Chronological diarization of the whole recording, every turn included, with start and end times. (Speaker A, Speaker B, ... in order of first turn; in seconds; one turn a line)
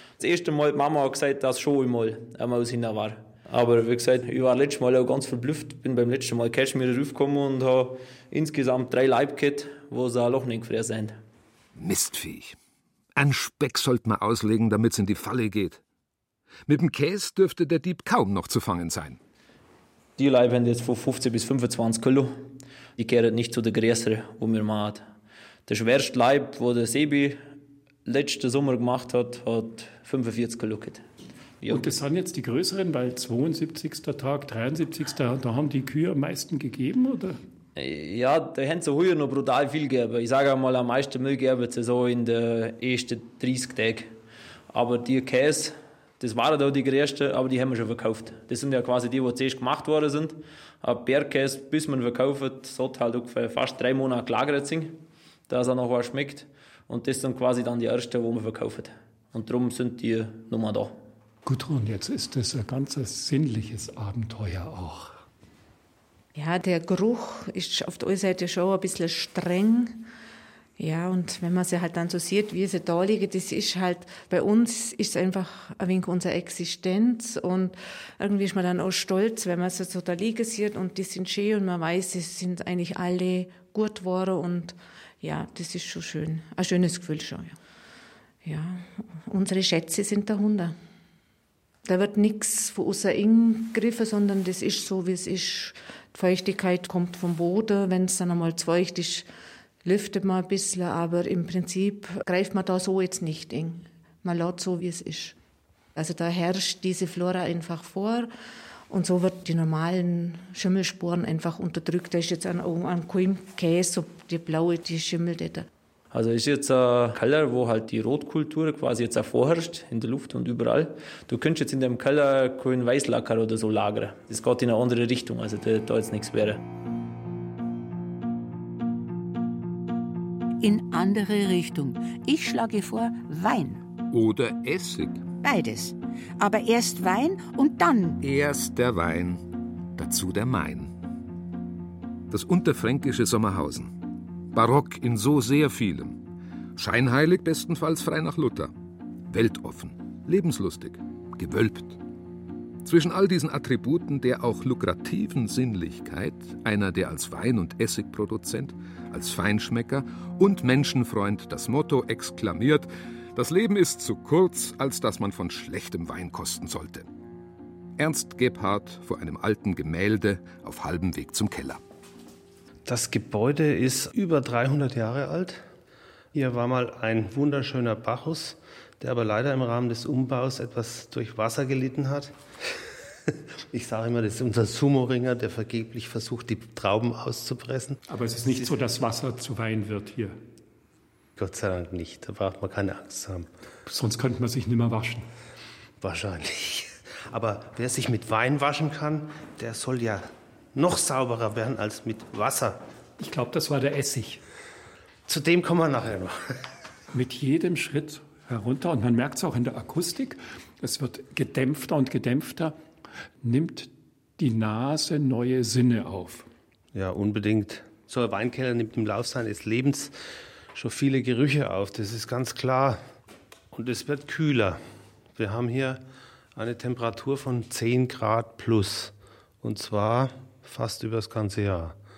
Speaker A: 0.2-11.1
Speaker B: 11.8-12.6
Speaker B: 13.2-15.8
Speaker B: 16.7-19.2
Speaker A: 20.2-25.0
Speaker A: 25.7-27.4
Speaker A: 28.1-31.0
Speaker A: 31.6-31.9
Speaker C: 31.7-37.4
Speaker A: 37.8-44.1
Speaker A: 44.7-61.0
Speaker C: 61.5-65.2
Speaker D: 66.3-70.1
Speaker D: 70.8-87.6
Speaker D: 88.4-90.8
Speaker D: 91.8-99.3
Speaker D: 99.8-105.4
Speaker D: 106.0-108.3
Speaker D: 108.9-115.7
Speaker A: 116.1-126.6
Speaker E: 130.6-133.8
Speaker B: 134.1-135.2
Speaker E: 135.4-138.2
Speaker B: 138.2-139.4
Speaker B: 140.0-140.9
Speaker B: 142.3-143.9
Speaker B: 144.5-146.2
Speaker B: 146.8-148.7
Speaker B: 149.3-152.0
Speaker B: 152.8-167.1
Speaker B: 168.0-171.8
Speaker F: 172.9-175.6
Speaker F: 176.3-182.3
Speaker F: 183.7-188.0
Speaker C: 188.1-190.4
Speaker F: 191.4-193.5
Speaker C: 193.9-195.3
Speaker F: 196.0-202.8
Speaker C: 203.2-204.4
Speaker F: 205.3-206.5
Speaker C: 207.1-212.8
Speaker C: 213.4-216.5
Speaker F: 216.9-220.2
Speaker F: 220.8-223.0
Speaker F: 223.7-224.8
Speaker F: 225.4-226.0
Speaker F: 226.6-232.0